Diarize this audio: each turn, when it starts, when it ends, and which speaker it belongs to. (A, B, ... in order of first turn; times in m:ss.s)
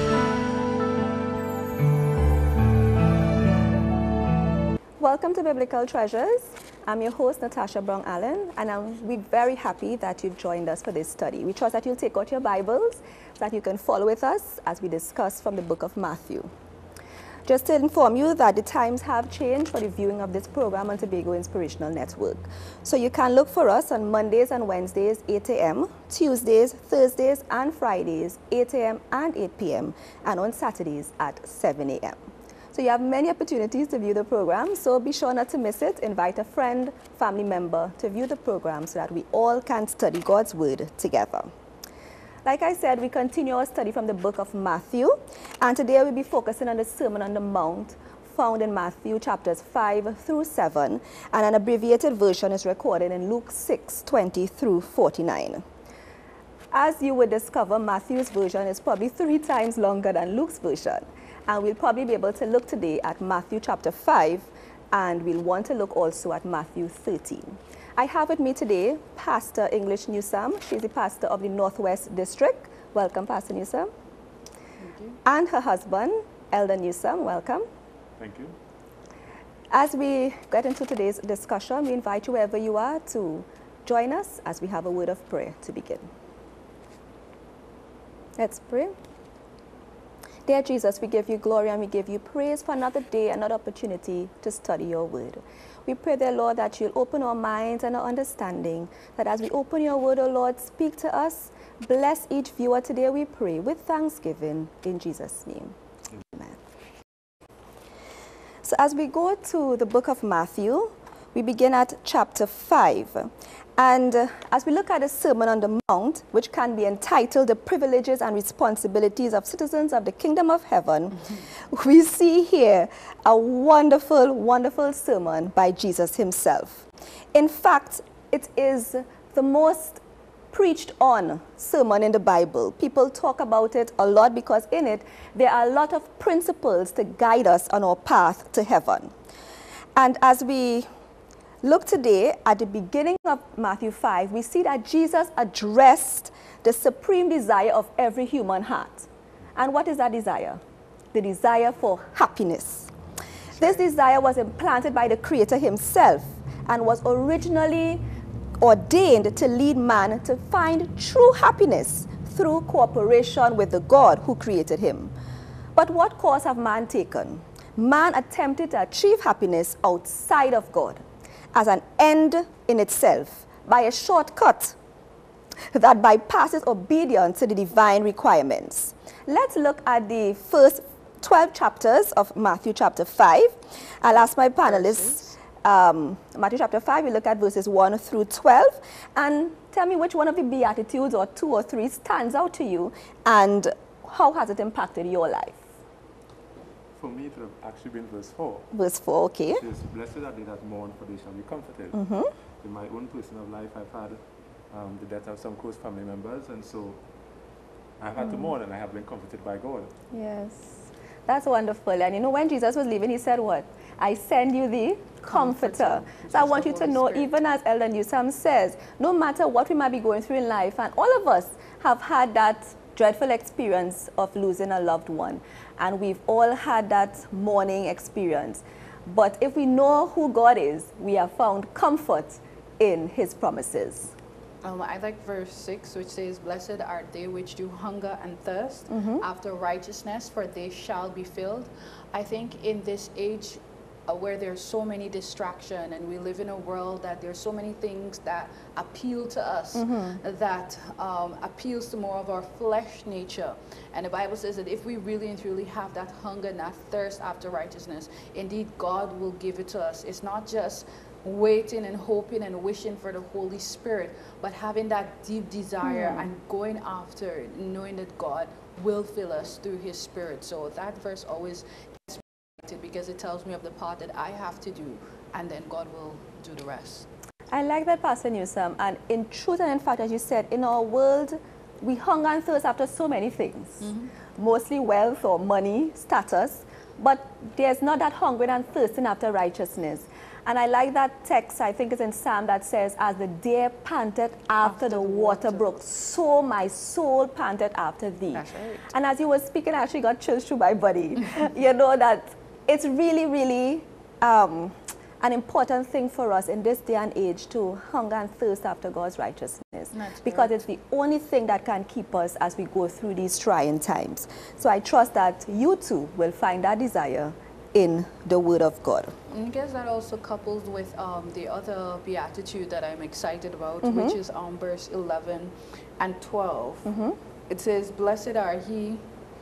0:05.0-0:16.5 A
0:17.4-0:32.2 A
0:32.7-0:41.5 A
0:42.4-0:55.6 A
0:56.7-1:13.9 A
1:14.8-1:15.2 B
1:15.2-1:17.6 A
1:18.2-1:18.5 C
1:19.7-1:26.0 A
1:28.4-1:28.9 A
1:30.4-1:45.8 A
1:46.3-1:46.6 A
1:48.6-2:10.0 A
2:10.5-2:19.1 A
2:20.0-2:20.8 A
2:21.6-2:30.6 A
2:31.1-2:32.9 A
2:33.6-2:38.0 A
2:38.6-2:45.1 A
2:45.7-2:51.0 A
2:51.5-2:54.8 A
2:55.7-3:15.6 A
3:04.7-3:05.2 B
3:17.0-3:18.7 C
3:18.7-3:19.6 A
3:19.6-3:22.0 C
3:21.9-3:22.3 A
3:22.6-3:24.2 C
3:24.7-3:27.0 C
3:28.0-3:29.9 C
3:30.1-3:54.1 A
3:35.2-3:37.3 B
3:54.6-4:37.1 B
3:58.9-3:59.2 A
4:09.7-4:10.2 A
4:25.8-4:26.2 A
4:37.5-5:19.1 A
4:43.8-4:44.1 B
4:54.6-4:55.6 B
4:58.3-4:58.8 B
5:09.9-5:10.6 B
5:19.3-5:26.9 B
5:23.8-5:24.2 A
5:26.8-5:27.2 A
5:27.5-5:29.0 B